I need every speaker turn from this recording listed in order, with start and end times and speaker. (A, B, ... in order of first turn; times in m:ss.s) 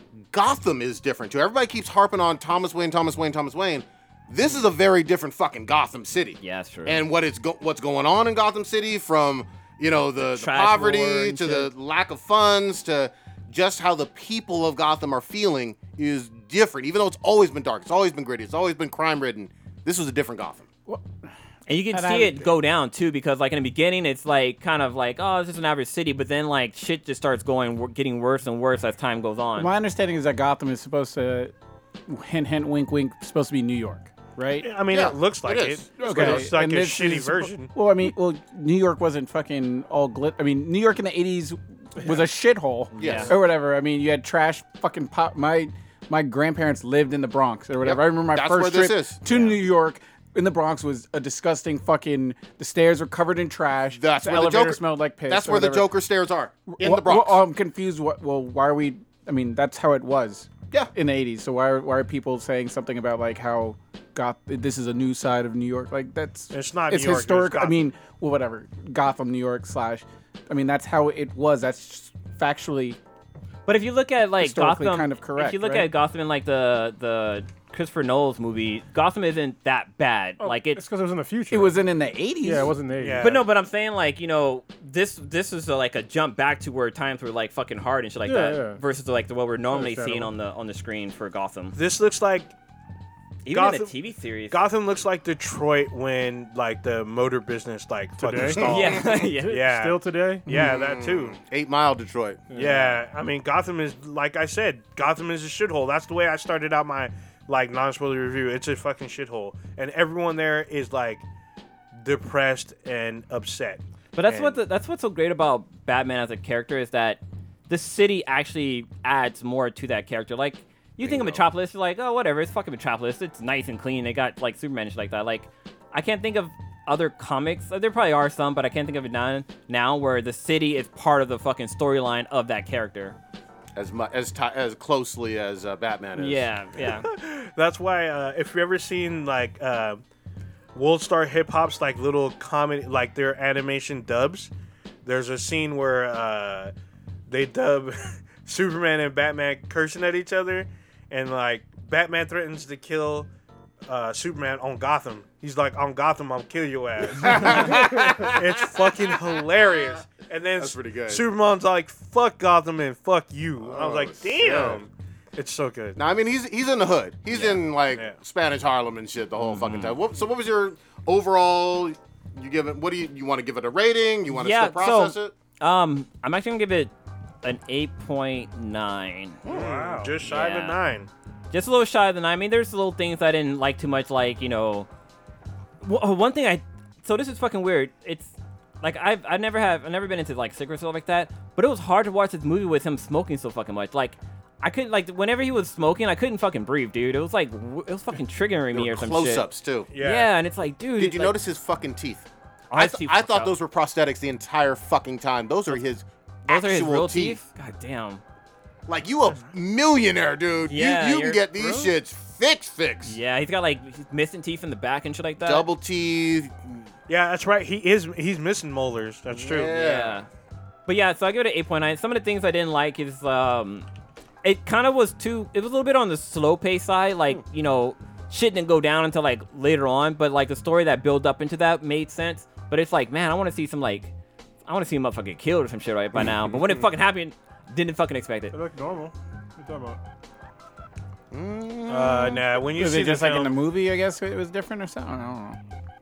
0:00.3-0:20.7 A
0:06.4-0:07.0 B
0:10.2-0:11.7 B
0:21.7-0:29.7 B
0:21.9-0:22.5 C
0:29.6-0:31.5 C
0:32.1-0:34.7 C
0:34.6-0:37.7 D
0:34.9-0:36.5 A
0:36.0-0:55.9 C
0:42.9-0:43.4 A
0:43.0-0:43.3 B
0:47.8-0:49.6 A
0:54.0-0:57.4 A
0:56.7-1:13.0 C
1:06.5-1:07.8 D
1:13.6-1:20.8 B
1:14.4-1:15.9 C
1:20.4-1:21.8 E
1:21.5-1:22.8 C
1:22.4-1:23.3 E
1:23.0-1:23.4 D
1:23.2-1:31.8 B
1:28.2-1:28.8 E
1:29.7-1:30.3 E
1:31.7-1:32.5 D
1:33.4-1:34.6 B
1:33.5-1:34.0 D
1:34.5-1:41.4 D
1:38.2-1:40.5 E
1:38.6-1:39.6 B
1:40.5-1:42.5 A
1:42.5-1:42.9 E
1:42.5-1:51.2 D
1:52.0-1:54.6 D
1:54.1-2:13.2 B
2:01.0-2:01.4 A
2:13.8-2:16.5 A
2:16.2-2:17.1 B
2:17.0-2:20.0 D
2:20.7-2:24.5 D
2:25.0-2:26.7 D
2:27.3-2:33.3 D
2:33.9-2:46.0 D
2:37.1-2:39.2 A
2:40.6-2:41.2 A
2:43.6-2:44.8 A
2:46.0-2:55.3 A
2:47.3-2:47.6 B
2:47.9-2:48.2 D
2:49.4-2:50.0 B
2:54.3-2:56.9 B
2:57.4-2:59.4 B
2:59.4-2:59.7 A
2:59.4-3:01.1 D
2:59.5-3:00.1 E
3:00.2-3:00.8 B
3:01.5-3:04.9 B
3:05.8-3:21.4 B
3:18.7-3:19.9 A
3:19.9-3:20.3 D
3:21.0-3:27.4 A
3:22.7-3:23.5 B
3:26.5-3:28.2 B
3:28.9-3:33.2 A
3:30.6-3:31.4 B
3:33.0-3:35.6 B
3:35.4-3:36.8 A
3:37.1-3:39.7 D
3:39.3-3:40.2 A
3:39.7-3:40.3 B
3:40.9-3:43.9 B
3:44.4-3:54.1 B
3:54.6-3:58.6 B
3:58.5-4:00.0 E
4:01.3-4:02.5 A
4:01.9-4:03.6 D
4:02.7-4:05.6 C